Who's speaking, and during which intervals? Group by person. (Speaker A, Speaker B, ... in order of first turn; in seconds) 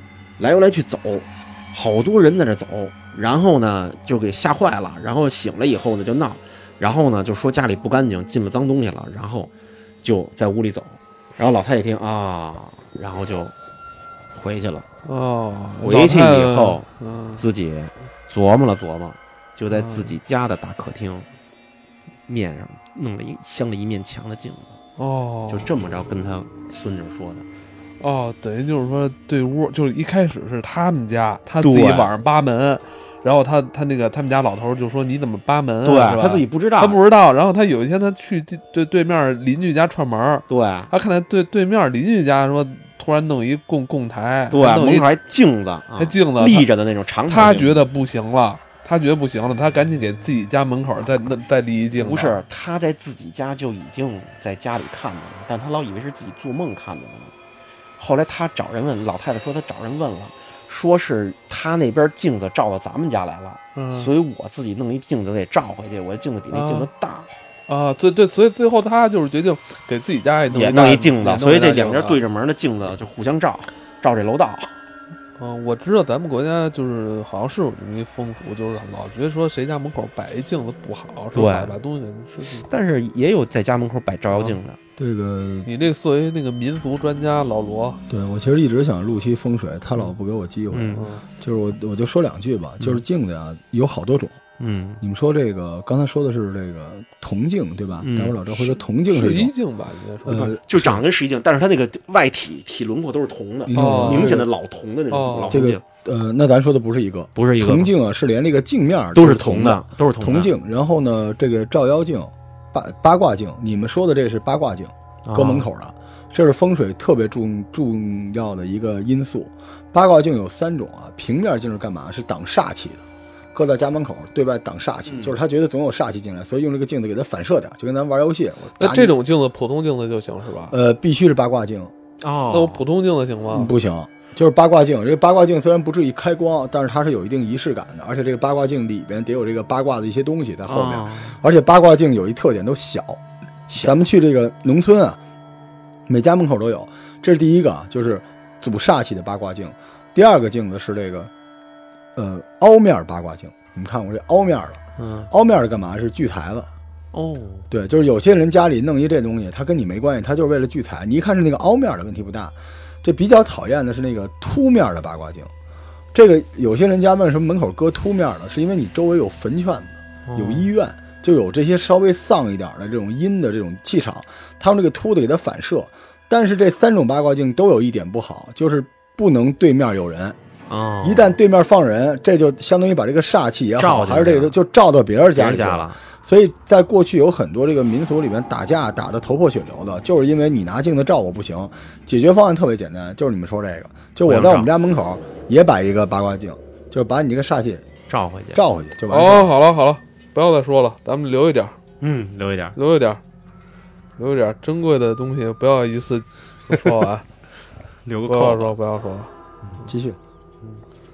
Speaker A: 0.4-9.5, 10.0-13.5, 14.3-14.9, 15.8-21.3, 22.3-24.8, 25.5-27.4, 31.6-32.1, 35.8-37.0, 40.5-40.9, 44.5-47.9, 52.0-57.3, 58.0-67.3, 70.5-74.7, 81.3-81.7, 82.6-84.8, 90.7-91.1, 94.6-95.0, 98.0-98.4, 100.3-105.8, 107.3-107.9, 109.1-110.5, 115.2-115.7, 125.0-125.3, 132.2-132.8, 140.7-141.4, 143.7-144.0, 155.0-155.3, 157.1-157.7, 170.2-170.7, 180.7-181.4, 183.8-184.5, 185.3-186.0, 194.2-194.7, 198.1-198.6, 202.0-202.8, 208.0-208.7
Speaker B: 15.0-17.4, 19.7-20.1, 25.0-25.7, 28.0-45.1, 46.0-46.6, 47.3-52.4, 63.7-64.1, 66.5-66.9, 67.7-72.2, 75.4-82.7, 84.3-84.6, 85.6-88.0, 90.9-91.2, 99.1-100.6, 103.7-104.5, 105.1-105.6, 128.8-130.7, 132.5-133.7, 199.1-201.8, 202.7-203.2, 204.2-207.2, 208.3-209.3
Speaker C: 85.0-85.7, 88.1-94.4, 95.0-99.5, 100.2-101.0, 103.7-104.5, 105.5-129.1, 130.7-131.9, 133.5-143.2, 143.8-145.2, 146.1-151.3, 152.2-156.7, 157.7-165.5, 166.1-180.4, 181.0-197.9, 198.5-199.5, 209.7-210.2